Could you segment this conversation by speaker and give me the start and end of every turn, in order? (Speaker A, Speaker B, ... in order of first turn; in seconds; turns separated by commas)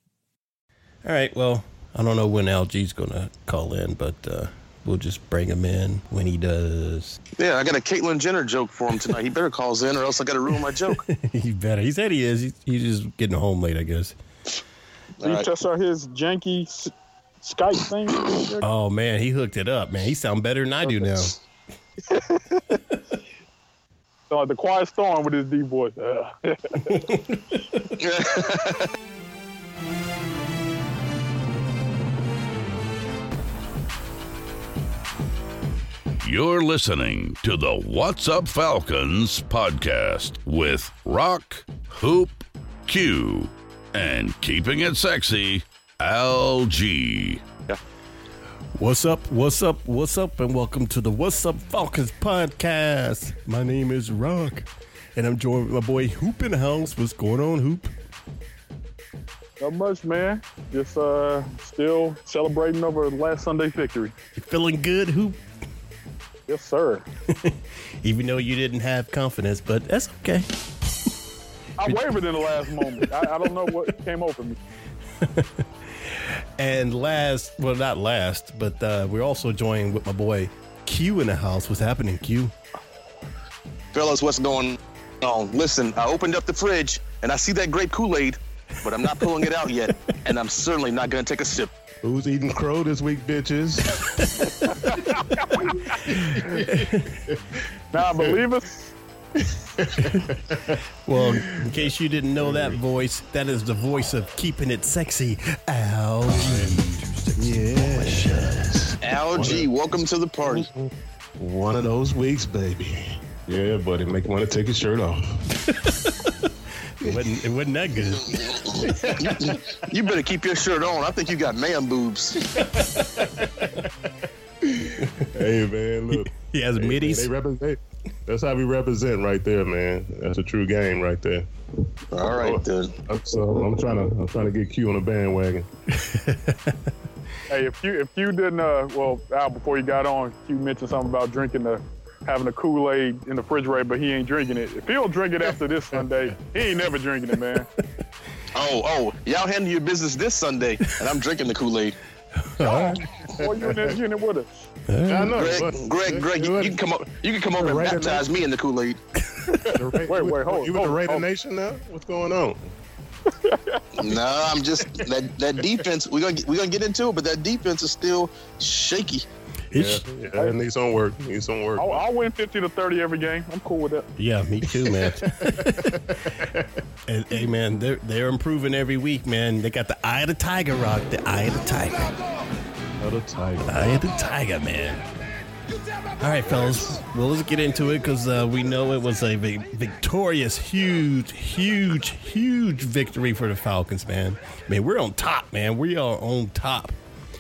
Speaker A: 1.0-7.2, Speaker B: 7.4-11.0, Speaker A: 10.8-14.2, Speaker B: 15.2-15.5, Speaker C: 15.2-18.7, Speaker A: 18.6-21.4, Speaker C: 24.3-27.1, Speaker B: 28.0-28.9, Speaker D: 36.2-47.8, Speaker A: 48.8-57.9, Speaker C: 59.6-64.1, Speaker A: 64.4-65.4, Speaker C: 66.5-67.1, Speaker A: 67.3-70.5, Speaker C: 71.8-74.6, Speaker A: 71.8-73.5, Speaker A: 75.2-82.5, Speaker B: 83.9-91.7, Speaker E: 92.0-97.4, Speaker C: 94.7-95.9, Speaker A: 96.1-97.2, Speaker C: 97.9-98.9, Speaker E: 98.0-98.3, Speaker E: 99.4-101.8, Speaker A: 100.0-100.3, Speaker A: 101.0-108.9, Speaker E: 102.4-102.8, Speaker E: 106.3-109.7, Speaker B: 109.0-110.7, Speaker E: 110.4-115.5, Speaker A: 115.7-118.7, Speaker E: 118.6-119.6, Speaker B: 119.2-122.4, Speaker E: 122.4-123.9, Speaker E: 124.6-131.5, Speaker A: 126.1-127.3, Speaker B: 132.1-132.9, Speaker E: 132.2-135.7, Speaker A: 135.9-136.9, Speaker C: 137.5-147.7, Speaker B: 148.5-152.0, Speaker A: 152.3-153.0, Speaker C: 152.6-154.7, Speaker E: 153.3-153.9, Speaker A: 154.9-155.4, Speaker E: 155.1-156.8, Speaker B: 155.3-159.0, Speaker E: 157.5-158.3, Speaker C: 159.6-161.3, Speaker E: 159.7-162.7, Speaker C: 163.3-163.8, Speaker B: 164.0-169.2, Speaker A: 169.7-170.0, Speaker E: 169.7-172.0, Speaker C: 171.8-174.1, Speaker A: 174.2-176.3, Speaker E: 174.7-176.8, Speaker A: 177.1-182.2, Speaker E: 183.0-184.1, Speaker A: 183.6-185.0, Speaker A: 186.2-197.0